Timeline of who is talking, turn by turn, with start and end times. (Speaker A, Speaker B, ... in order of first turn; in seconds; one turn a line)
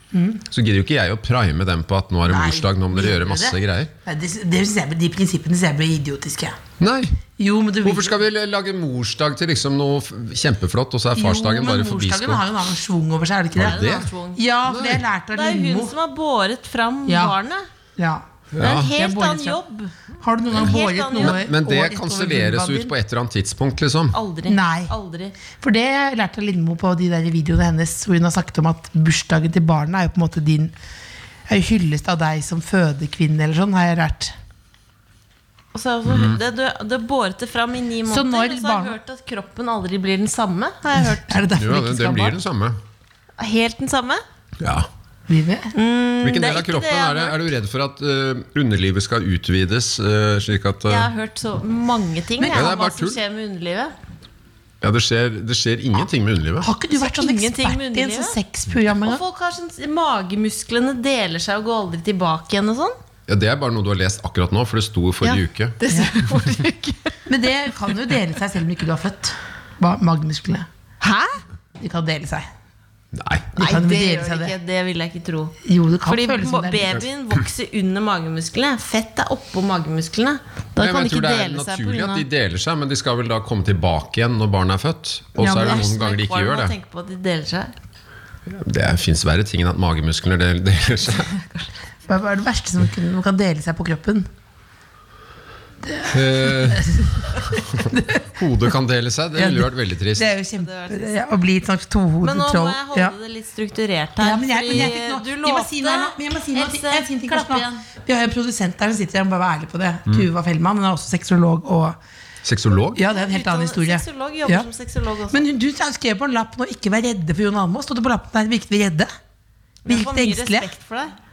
Speaker A: 0.1-0.4
Speaker B: 0.5-3.9
Speaker A: 2.3-6.6
Speaker B: 6.8-7.2
Speaker A: 7.4-8.2
Speaker B: 7.8-12.4
Speaker A: 11.2-15.9
Speaker B: 13.6-14.1
Speaker C: 13.6-14.4
Speaker B: 14.7-15.0
Speaker C: 15.3-17.7
Speaker A: 17.1-17.4
Speaker A: 18.0-18.2
Speaker B: 18.5-18.9
Speaker C: 18.6-19.9
Speaker A: 18.8-19.6
Speaker A: 20.2-22.9
Speaker C: 20.5-21.4
Speaker B: 21.2-24.2
Speaker C: 24.1-25.4
Speaker A: 24.5-24.9
Speaker A: 25.6-30.7
Speaker A: 31.5-34.4
Speaker C: 35.7-41.5
Speaker B: 36.1-36.4
Speaker A: 38.1-39.0
Speaker A: 41.2-42.4
Speaker B: 41.6-42.8
Speaker C: 43.4-44.2
Speaker B: 44.6-44.9
Speaker A: 45.3-45.7
Speaker C: 45.7-47.5
Speaker B: 46.2-51.1
Speaker C: 50.9-53.9
Speaker B: 52.5-53.2
Speaker B: 54.8-56.7
Speaker A: 56.6-59.2
Speaker C: 56.9-58.4
Speaker C: 59.0-63.0
Speaker B: 63.3-65.8
Speaker C: 65.2-67.2
Speaker A: 67.3-70.7
Speaker C: 71.0-71.4
Speaker A: 71.8-72.5
Speaker B: 73.1-73.5
Speaker A: 73.5-74.5
Speaker C: 73.6-82.2
Speaker A: 75.6-77.0
Speaker B: 80.8-86.7
Speaker A: 85.4-85.9
Speaker C: 85.5-87.7
Speaker B: 88.5-91.3
Speaker C: 91.2-91.7
Speaker A: 92.1-94.3
Speaker A: 95.8-98.3
Speaker B: 96.1-100.3
Speaker A: 99.3-103.2
Speaker C: 100.5-101.2
Speaker C: 102.2-107.8
Speaker A: 104.2-112.0
Speaker B: 112.4-113.0
Speaker A: 112.9-114.7
Speaker C: 113.1-115.4
Speaker A: 115.3-119.1
Speaker C: 119.8-121.1
Speaker A: 119.9-120.7